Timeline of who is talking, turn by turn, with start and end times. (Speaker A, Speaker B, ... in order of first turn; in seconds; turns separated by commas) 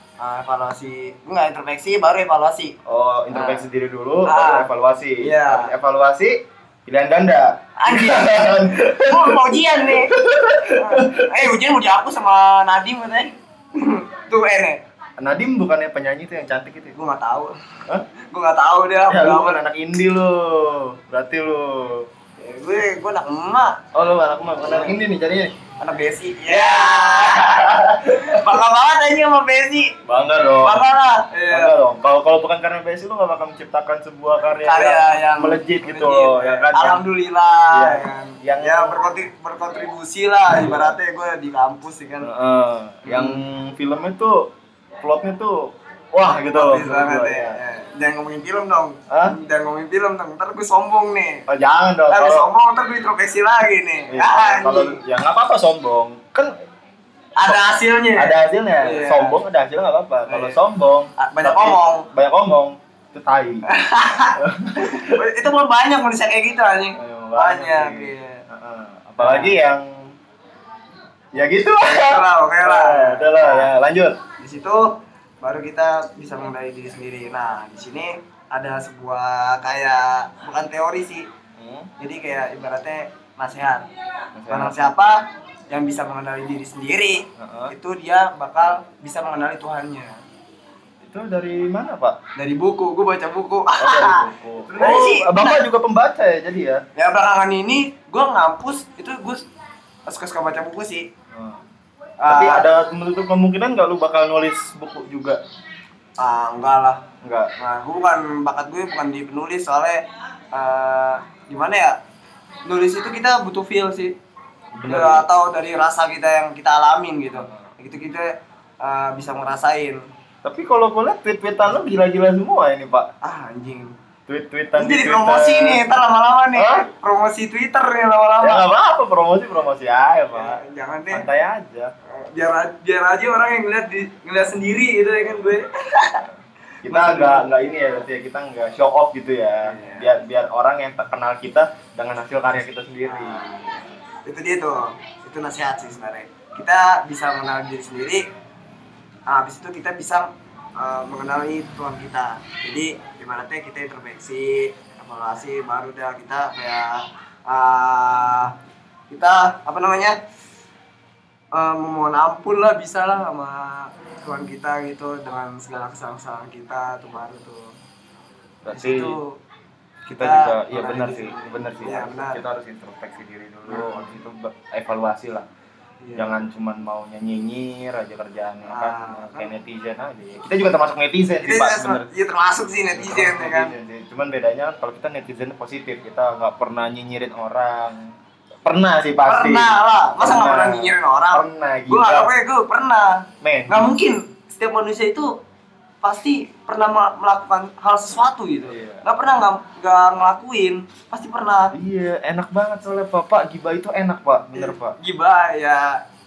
Speaker A: 0.2-2.8, Speaker B: 2.9-11.5, Speaker A: 3.3-3.7, Speaker A: 4.3-4.7, Speaker A: 5.2-5.7, Speaker A: 7.8-10.1, Speaker A: 10.7-14.8, Speaker B: 15.2-17.0, Speaker A: 16.9-17.5, Speaker A: 18.2-19.6, Speaker B: 19.1-22.1, Speaker A: 22.4-23.8, Speaker B: 23.9-25.5, Speaker A: 24.6-24.9, Speaker A: 25.8-29.9, Speaker B: 26.5-28.5, Speaker B: 30.1-30.8, Speaker A: 30.6-31.7, Speaker B: 31.5-37.0, Speaker A: 34.6-42.3, Speaker B: 37.7-39.0, Speaker B: 40.5-41.0, Speaker B: 42.2-47.6, Speaker A: 43.0-43.4, Speaker A: 46.5-51.5, Speaker B: 49.1-49.4, Speaker B: 51.5-52.5, Speaker A: 52.1-55.0, Speaker B: 54.1-56.5, Speaker A: 57.4-59.4, Speaker B: 57.5-63.7, Speaker A: 60.3-60.6, Speaker A: 61.2-62.1, Speaker A: 63.7-68.4, Speaker B: 64.4-65.2, Speaker B: 67.0-70.1, Speaker A: 69.2-69.5, Speaker B: 71.3-74.2, Speaker A: 71.8-73.7, Speaker A: 74.4-81.3, Speaker B: 81.6-81.9, Speaker A: 82.0-83.9, Speaker B: 84.4-84.8, Speaker A: 84.5-90.2, Speaker B: 87.4-87.7, Speaker B: 91.0-92.2, Speaker A: 92.4-95.6, Speaker B: 93.8-96.8, Speaker A: 97.0-99.5, Speaker A: 100.1-101.1, Speaker B: 101.3-101.6, Speaker A: 102.2-102.7, Speaker B: 102.3-105.4, Speaker A: 106.2-107.1, Speaker B: 107.2-107.5, Speaker A: 107.6-112.0, Speaker A: 112.7-114.1, Speaker B: 114.8-115.3, Speaker A: 114.9-120.0, Speaker B: 117.4-117.7, Speaker B: 120.4-123.1, Speaker A: 123.2-123.9, Speaker B: 124.3-125.8, Speaker A: 124.8-128.7, Speaker B: 126.5-126.9, Speaker B: 128.4-131.9, Speaker A: 130.3-131.3, Speaker A: 132.1-136.2, Speaker B: 135.3-135.6, Speaker B: 136.2-143.9, Speaker A: 136.9-137.5, Speaker A: 139.6-140.1, Speaker A: 143.1-148.3, Speaker A: 149.3-158.6, Speaker A: 159.1-160.2, Speaker A: 161.5-167.8, Speaker B: 168.6-169.2, Speaker A: 168.7-169.4, Speaker A: 170.1-172.4, Speaker B: 170.1-175.5, Speaker A: 173.7-174.2, Speaker A: 176.0-176.4, Speaker B: 176.2-182.1, Speaker A: 178.7-179.6, Speaker A: 181.4-183.8, Speaker B: 182.9-188.1, Speaker B: 188.7-192.3, Speaker A: 189.3-195.3, Speaker B: 193.4-194.0, Speaker A: 196.0-201.8, Speaker B: 198.7-199.0, Speaker B: 201.7-205.0, Speaker A: 204.5-206.0